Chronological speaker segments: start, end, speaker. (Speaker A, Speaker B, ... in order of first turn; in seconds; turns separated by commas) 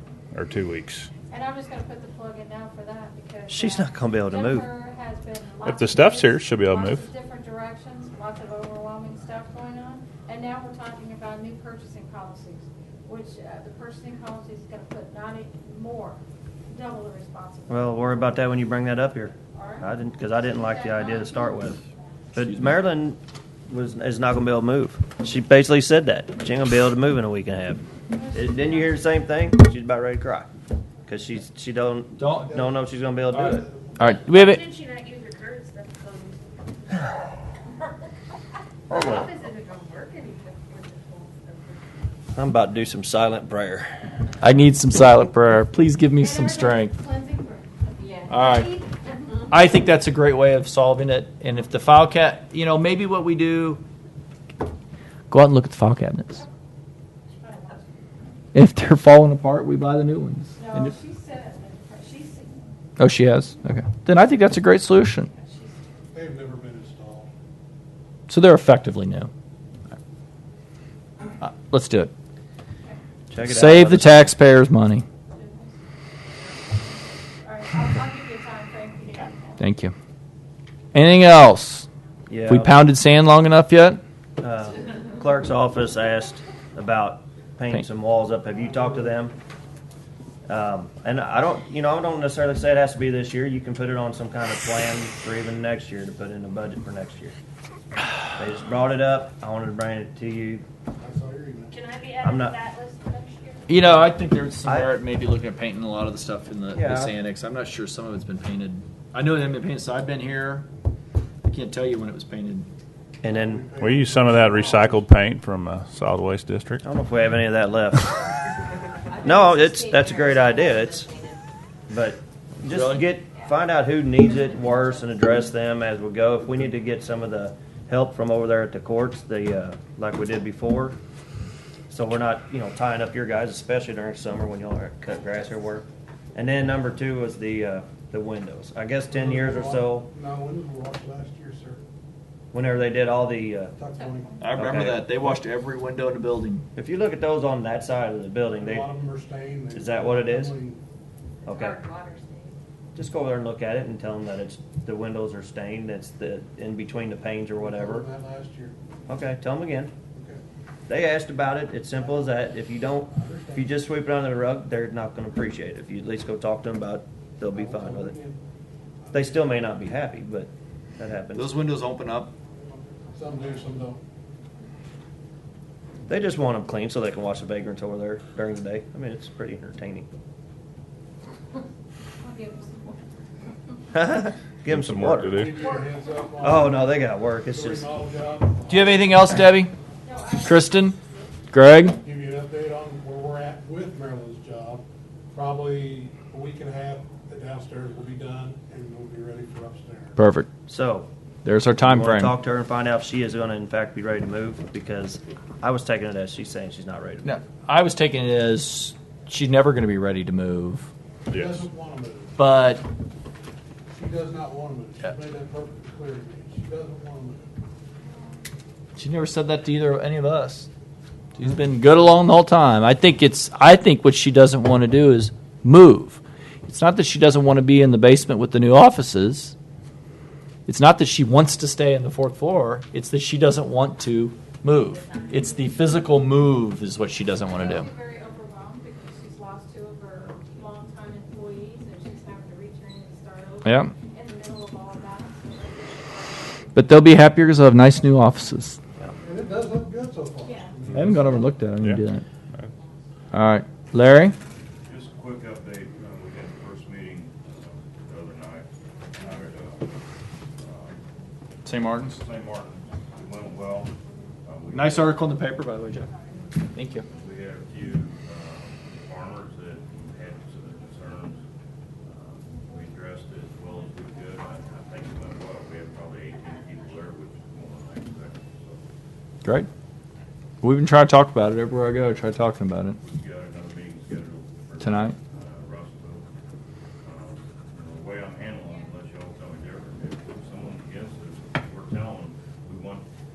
Speaker A: 0.3-1.1, Speaker B: 1.3-18.2, Speaker C: 3.5-4.7, Speaker A: 5.6-7.0, Speaker C: 17.7-21.8, Speaker B: 19.5-21.8, Speaker C: 22.3-30.5, Speaker D: 22.4-22.8, Speaker B: 28.1-29.0, Speaker C: 31.1-33.7, Speaker D: 32.2-32.6, Speaker D: 33.3-34.6, Speaker E: 34.0-36.5, Speaker E: 38.9-42.0, Speaker C: 38.9-39.2, Speaker C: 42.3-44.0, Speaker D: 44.4-46.9, Speaker B: 46.2-49.3, Speaker E: 48.0-48.3, Speaker D: 48.3-48.7, Speaker D: 49.5-53.8, Speaker D: 55.3-56.4, Speaker B: 57.4-57.9, Speaker E: 57.5-57.8, Speaker D: 58.5-60.9, Speaker B: 60.5-62.7, Speaker D: 63.0-65.3, Speaker B: 65.3-65.8, Speaker F: 66.1-67.3, Speaker D: 68.3-69.3, Speaker D: 71.4-72.1, Speaker C: 73.3-74.3, Speaker D: 73.5-75.0, Speaker B: 75.3-75.7, Speaker B: 77.4-79.6, Speaker D: 79.6-79.9, Speaker D: 80.9-81.9, Speaker C: 82.3-82.8, Speaker D: 82.5-84.0, Speaker C: 84.4-89.3, Speaker C: 90.5-97.3, Speaker C: 98.3-100.6, Speaker F: 101.0-101.8, Speaker E: 101.7-104.1, Speaker C: 102.2-102.6, Speaker D: 103.7-110.7, Speaker C: 104.6-104.9, Speaker C: 106.7-107.1, Speaker D: 111.5-112.7, Speaker C: 113.2-113.6, Speaker F: 113.2-115.0, Speaker A: 113.8-116.8, Speaker C: 116.8-118.3, Speaker E: 119.0-121.4, Speaker C: 119.2-121.1, Speaker C: 121.9-131.0, Speaker D: 122.7-123.0, Speaker E: 123.3-123.6, Speaker E: 124.2-125.1, Speaker C: 131.9-140.1, Speaker F: 139.1-141.8, Speaker C: 142.5-143.7, Speaker F: 143.7-144.4, Speaker D: 144.4-146.6, Speaker C: 144.5-145.3, Speaker C: 146.7-148.9, Speaker F: 148.5-150.8, Speaker C: 149.7-150.6, Speaker C: 151.4-151.8, Speaker E: 151.4-152.6, Speaker C: 152.9-158.1, Speaker F: 157.6-158.7, Speaker C: 159.1-159.9, Speaker F: 160.1-160.4, Speaker C: 160.9-168.2, Speaker F: 163.0-163.7, Speaker F: 167.5-168.4, Speaker F: 169.1-169.5, Speaker C: 169.1-171.5, Speaker D: 171.3-172.3, Speaker F: 173.1-174.0, Speaker C: 176.1-180.1, Speaker B: 182.2-183.0, Speaker C: 183.9-185.4, Speaker A: 184.7-185.6, Speaker F: 185.3-189.2, Speaker C: 186.4-187.9, Speaker D: 188.7-189.7, Speaker B: 190.0-191.4, Speaker D: 190.4-190.9, Speaker D: 191.5-192.0, Speaker F: 192.0-200.2, Speaker D: 200.2-200.5, Speaker C: 200.7-201.1, Speaker D: 201.4-202.3, Speaker C: 201.8-207.3, Speaker D: 207.2-210.9, Speaker F: 211.3-212.3, Speaker D: 212.4-212.8, Speaker F: 213.9-217.5, Speaker D: 218.9-220.7, Speaker D: 221.4-229.5, Speaker D: 230.7-237.9, Speaker E: 234.8-235.8, Speaker B: 237.5-248.2, Speaker D: 243.6-243.9, Speaker D: 246.7-248.8, Speaker F: 249.2-251.4, Speaker B: 250.4-250.8, Speaker D: 250.9-252.2, Speaker A: 251.8-252.7, Speaker D: 253.3-254.3, Speaker G: 254.8-259.9, Speaker G: 260.6-261.0, Speaker D: 261.6-262.2, Speaker G: 262.1-265.3, Speaker D: 264.7-267.1, Speaker G: 267.1-271.4, Speaker G: 272.0-278.8, Speaker D: 280.6-283.0, Speaker G: 283.0-286.3, Speaker D: 284.8-285.1, Speaker G: 287.0-293.1